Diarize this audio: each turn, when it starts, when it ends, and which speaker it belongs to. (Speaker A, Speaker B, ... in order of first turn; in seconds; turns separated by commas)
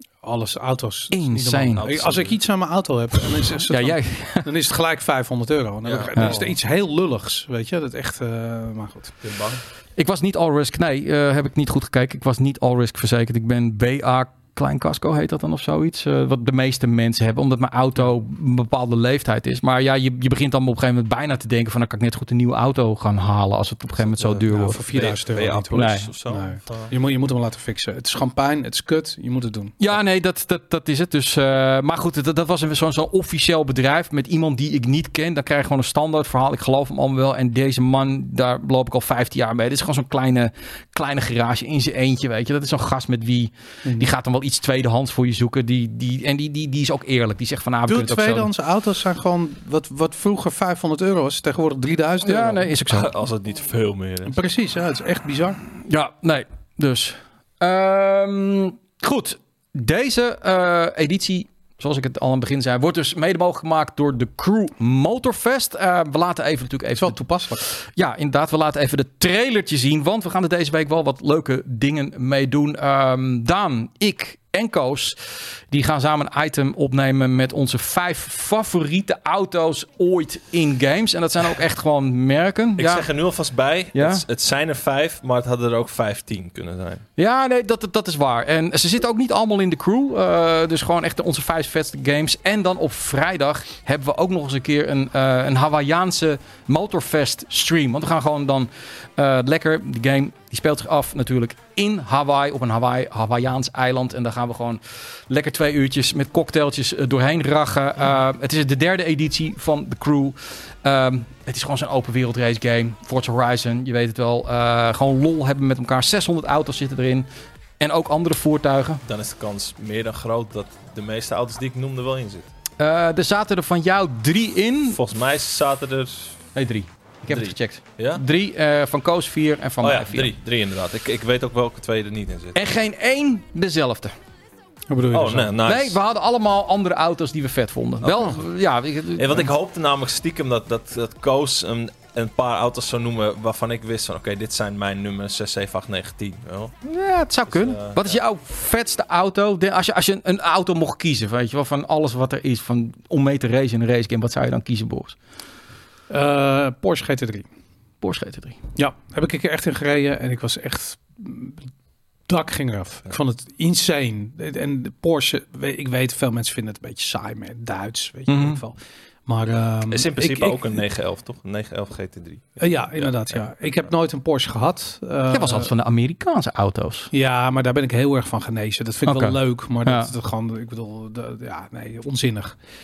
Speaker A: 0.2-9.2, Speaker B: 1.1-1.9, Speaker C: 1.8-2.4, Speaker B: 3.6-4.5, Speaker C: 5.8-6.5, Speaker C: 9.2-9.6, Speaker B: 9.9-25.0, Speaker C: 24.1-26.9, Speaker A: 24.4-29.8, Speaker B: 25.7-26.1, Speaker B: 29.8-48.5, Speaker A: 43.8-44.1, Speaker A: 47.9-52.7, Speaker B: 52.2-53.1, Speaker C: 52.9-54.4, Speaker A: 54.2-55.6, Speaker B: 55.8-75.2, Speaker A: 66.9-67.7, Speaker B: 75.7-83.1, Speaker C: 82.8-87.0, Speaker B: 83.9-84.2, Speaker B: 87.2-117.3, Speaker B: 117.8-119.0, Speaker C: 119.0-122.5, Speaker B: 122.8-125.0, Speaker C: 124.9-126.4, Speaker B: 126.5-130.3, Speaker C: 127.3-128.2, Speaker C: 129.8-132.6, Speaker B: 132.5-134.1, Speaker A: 134.9-135.5, Speaker C: 135.1-136.0, Speaker B: 135.6-139.5, Speaker C: 138.0-138.4, Speaker C: 139.1-146.8, Speaker B: 146.8-155.2, Speaker C: 147.5-148.2, Speaker A: 156.1-157.5, Speaker B: 158.0-158.6, Speaker A: 158.8-161.7, Speaker A: 162.3-170.8, Speaker B: 168.3-168.6, Speaker C: 169.9-173.1, Speaker A: 172.6-175.7, Speaker B: 175.3-177.1, Speaker A: 177.1-182.6, Speaker B: 179.1-180.1